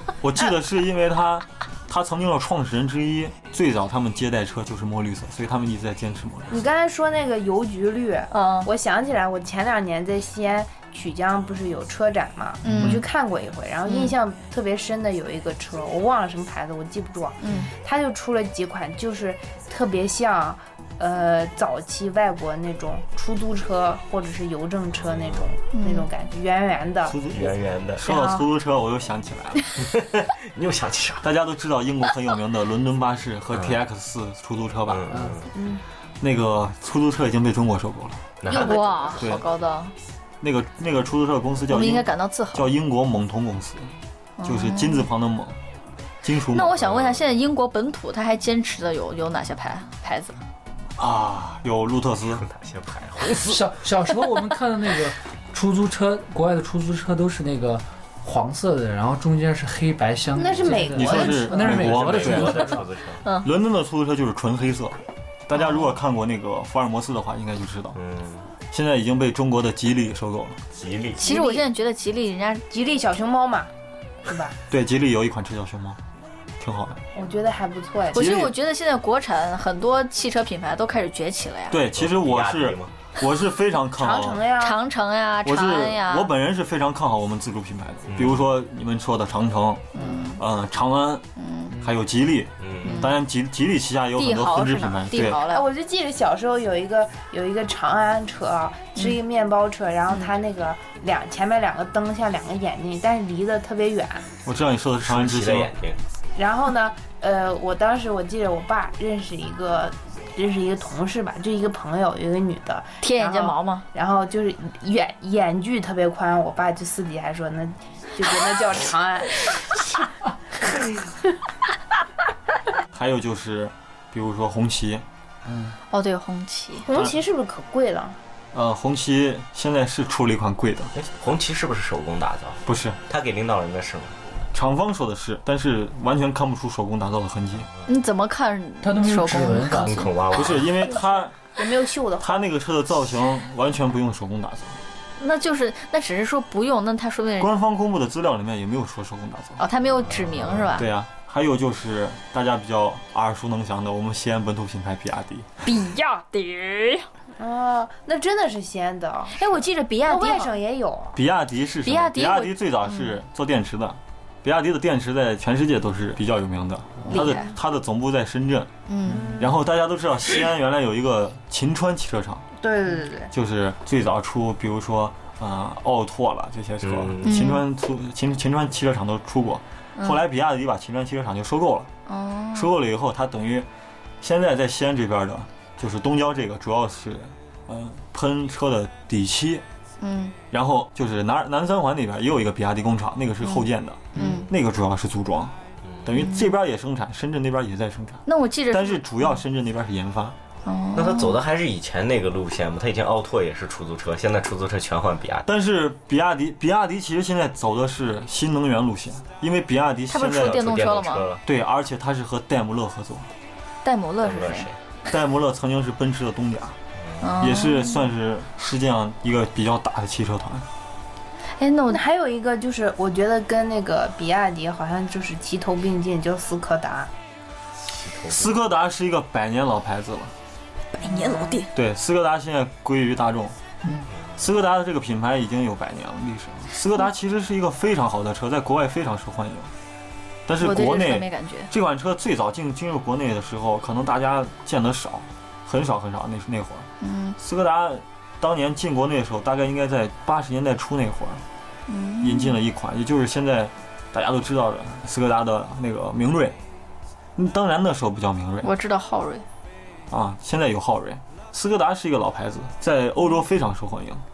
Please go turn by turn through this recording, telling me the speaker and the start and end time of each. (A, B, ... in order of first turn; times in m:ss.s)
0:00.2-0:06.6 A
0:06.5-0:27.2 B
0:08.3-0:08.7 C
0:12.6-0:13.0 D
0:12.6-0:13.0 C
0:13.9-0:14.2 C
0:17.4-0:17.7 C
0:25.0-0:25.5 E
0:25.7-0:26.1 C
0:27.0-0:29.7 A
0:27.3-0:28.1 E
0:28.0-0:28.4 B
0:29.8-0:31.3 E
0:31.2-0:35.1 A
0:33.5-0:33.8 E
0:34.9-0:35.5 E
0:35.1-0:35.4 D
0:35.5-0:35.8 B
0:36.2-0:38.3 A
0:38.4-0:39.3 E
0:38.5-0:39.9 C
0:39.2-0:39.4 A
0:40.4-0:45.6 A
0:41.7-0:42.7 C
0:44.4-0:45.1 C
0:46.2-0:47.1 A
0:46.4-0:50.4 C
0:51.0-0:52.4 A
0:52.3-0:53.6 E
0:53.4-1:02.9 D
1:00.4-1:01.7 B
1:01.0-1:02.8 A
1:01.6-1:03.2 E
1:03.2-1:03.5 C
1:03.4-1:08.0 A
1:08.0-1:08.5 E
1:08.7-1:10.6 A
1:10.7-1:11.2 E
1:11.2-1:12.7 C
1:11.2-1:11.7 B
1:12.7-1:13.7 B
1:14.3-1:14.6 B
1:14.7-1:16.0 A
1:16.6-1:17.0 A
1:17.1-1:18.3 B
1:18.1-1:21.8 C
1:18.1-1:18.5 A
1:21.7-1:24.4 A
1:22.0-1:22.9 E
1:24.0-1:24.8 B
1:24.6-1:26.3 C
1:25.4-1:31.3 A
1:28.1-1:28.4 E
1:29.9-1:30.4 C
1:31.4-1:31.8 C
1:31.8-1:35.4 A
1:32.6-1:33.1 E
1:32.8-1:33.2 C
1:34.2-1:35.7 C
1:35.4-1:44.3 B
1:44.4-1:45.7 A
1:45.0-1:46.0 E
1:46.4-1:59.6 B
1:53.0-1:53.8 C
2:02.9-2:05.0 A
2:05.5-2:05.8 D
2:05.9-2:06.8 C
2:06.8-2:08.2 B
2:08.5-2:10.9 A
2:10.9-2:14.2 E
2:12.6-2:13.0 A
2:14.5-2:17.7 A
2:17.9-2:20.1 C
2:18.8-2:20.0 D
2:19.7-2:20.8 E
2:20.3-2:21.4 A
2:20.8-2:22.5 B
2:22.2-2:24.8 A
2:25.2-2:27.5 C
2:27.4-2:29.6 A
2:29.6-2:30.9 C
2:30.0-2:30.8 E
2:30.8-2:35.6 A
2:35.6-2:37.1 C
2:37.4-2:41.2 B
2:39.3-2:40.6 C
2:41.2-2:48.7 A
2:41.8-2:43.2 C
2:47.1-2:47.5 C
2:48.9-2:49.4 C
2:49.1-2:49.5 B
2:49.4-2:52.4 A
2:52.6-2:53.3 B
2:53.3-3:01.9 A
2:56.8-2:57.5 E
2:57.2-2:57.6 C
3:02.1-3:02.7 C
3:02.5-3:03.7 A
3:04.2-3:09.6 A
3:10.0-3:10.4 C
3:10.5-3:20.4 A
3:13.4-3:14.5 C
3:14.2-3:14.4 D
3:15.9-3:16.1 E
3:16.2-3:16.4 C
3:18.3-3:19.1 C
3:20.7-3:21.4 C
3:21.0-3:25.5 E
3:25.5-3:30.7 A
3:30.1-3:31.3 C
3:30.4-3:31.4 E
3:31.4-3:33.3 A
3:33.8-3:34.7 C
3:34.2-3:34.8 E
3:35.1-3:36.8 A
3:37.0-3:37.3 E
3:37.2-3:38.1 C
3:37.4-3:40.7 A
3:41.6-3:42.0 C
3:41.9-3:47.1 B
3:47.8-3:48.6 E
3:48.3-3:50.3 A
3:51.0-3:51.7 C
3:51.0-3:51.6 B
3:51.7-3:53.6 A
3:53.8-3:54.1 D
3:54.4-3:59.7 A
4:00.5-4:06.9 A
4:00.6-4:01.7 C
4:07.0-4:07.4 C
4:07.4-4:11.4 A
4:11.9-4:12.6 C
4:12.2-4:16.6 A
4:17.4-4:18.7 A
4:18.6-4:19.4 C
4:20.1-4:24.2 A